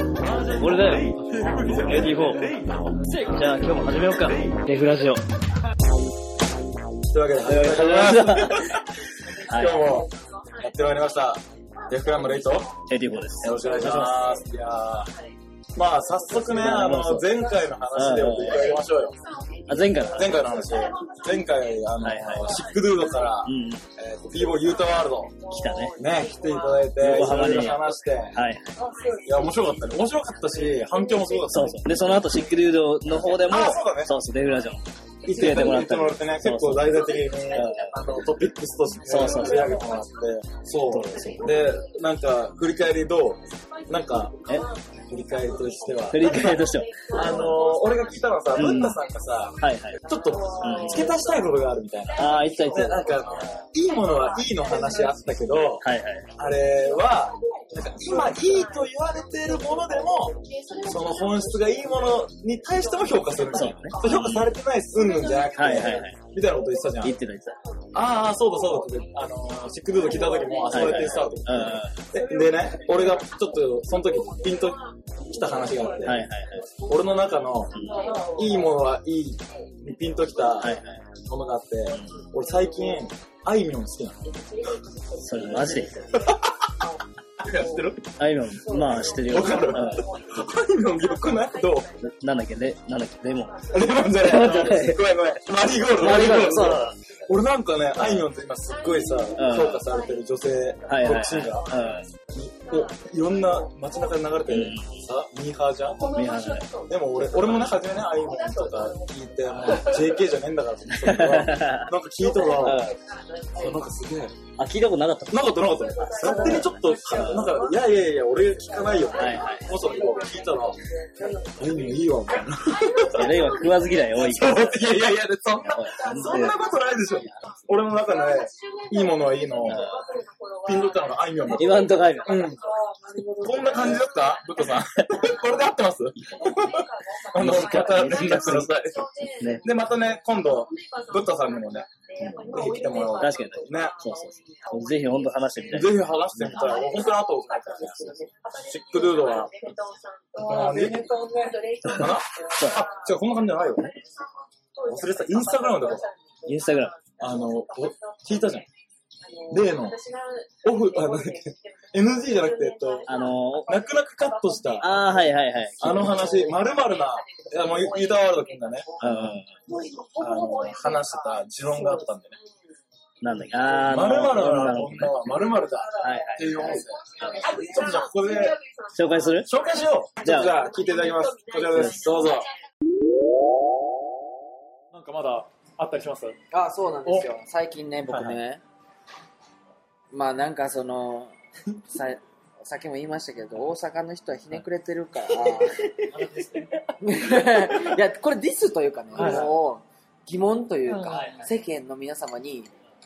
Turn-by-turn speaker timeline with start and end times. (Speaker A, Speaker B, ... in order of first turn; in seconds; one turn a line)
Speaker A: 0.1-2.9
Speaker B: 0.4-5.2
Speaker C: 1.4-2.2
Speaker C: 7.0-8.9
Speaker B: 7.5-8.8
Speaker B: 9.5-9.8
Speaker C: 9.5-12.7
Speaker B: 12.9-14.2
Speaker C: 13.4-15.1
Speaker C: 15.7-19.1
Speaker B: 16.5-17.3
Speaker B: 17.9-18.8
Speaker B: 19.7-20.3
Speaker C: 20.1-25.4
Speaker B: 22.0-22.7
Speaker B: 23.4-23.8
Speaker B: 25.5-25.9
Speaker C: 26.0-28.4
Speaker B: 27.0-27.8
Speaker B: 28.3-28.8
Speaker C: 29.2-32.0
Speaker B: 31.5-37.9
Speaker C: 33.4-34.1
Speaker C: 35.2-44.4
Speaker B: 39.1-39.7
Speaker B: 40.9-41.5
Speaker C: 45.1-55.9
Speaker B: 46.1-47.0
Speaker B: 48.5-49.0
Speaker B: 49.6-50.0
Speaker B: 50.6-51.1
Speaker B: 52.1-53.1
Speaker B: 55.8-56.3
Speaker C: 56.4-67.2
Speaker B: 63.5-64.5
Speaker B: 65.5-66.2
Speaker B: 67.0-67.6
Speaker C: 67.9-76.2
Speaker B: 70.7-72.0
Speaker B: 76.0-76.7
Speaker C: 76.9-77.8
Speaker C: 78.3-84.2
Speaker B: 80.6-81.0
Speaker B: 85.2-86.2
Speaker C: 85.4-86.4
Speaker C: 87.4-88.0
Speaker B: 88.2-90.0
Speaker C: 88.8-91.9
Speaker B: 92.0-93.6
Speaker C: 93.7-101.7
Speaker B: 94.2-95.0
Speaker B: 95.9-97.0
Speaker B: 99.4-99.8
Speaker B: 100.9-102.1
Speaker C: 102.3-106.0
Speaker B: 104.5-104.9
Speaker B: 106.1-106.7
Speaker C: 106.9-112.8
Speaker B: 111.0-111.9
Speaker B: 112.5-113.0
Speaker C: 113.5-114.3
Speaker B: 114.6-115.5
Speaker C: 115.3-120.8
Speaker B: 116.0-117.5
Speaker B: 119.2-119.7
Speaker C: 121.6-123.5
Speaker B: 123.1-124.9
Speaker C: 124.1-129.8
Speaker B: 125.6-126.5
Speaker B: 129.7-130.0
Speaker C: 130.6-132.6
Speaker B: 131.5-132.5
Speaker C: 133.4-139.1
Speaker B: 137.3-138.7
Speaker C: 139.6-144.0
Speaker B: 143.1-146.7
Speaker C: 145.7-149.5
Speaker C: 150.4-151.1
Speaker A: 150.5-151.5
Speaker C: 151.8-153.9
Speaker B: 152.6-152.8
Speaker C: 154.8-156.1
Speaker B: 156.5-156.9
Speaker C: 157.2-158.7
Speaker C: 159.5-160.0
Speaker C: 160.6-163.1
Speaker B: 163.1-163.7
Speaker C: 163.7-164.9
Speaker B: 164.8-166.1
Speaker C: 165.8-169.3
Speaker B: 169.0-169.5
Speaker C: 170.2-172.4
Speaker B: 173.2-175.1
Speaker C: 173.8-178.6
Speaker B: 176.0-176.5
Speaker B: 177.2-177.6
Speaker B: 178.9-179.5
Speaker C: 179.4-182.5
Speaker B: 180.2-180.6
Speaker B: 181.7-182.1
Speaker A: 184.9-186.3
Speaker D: 186.5-188.6
Speaker D: 190.1-196.3
Speaker A: 196.1-196.6
Speaker D: 197.0-202.7
Speaker A: 199.1-199.5
Speaker A: 200.9-201.4
Speaker B: 201.1-201.5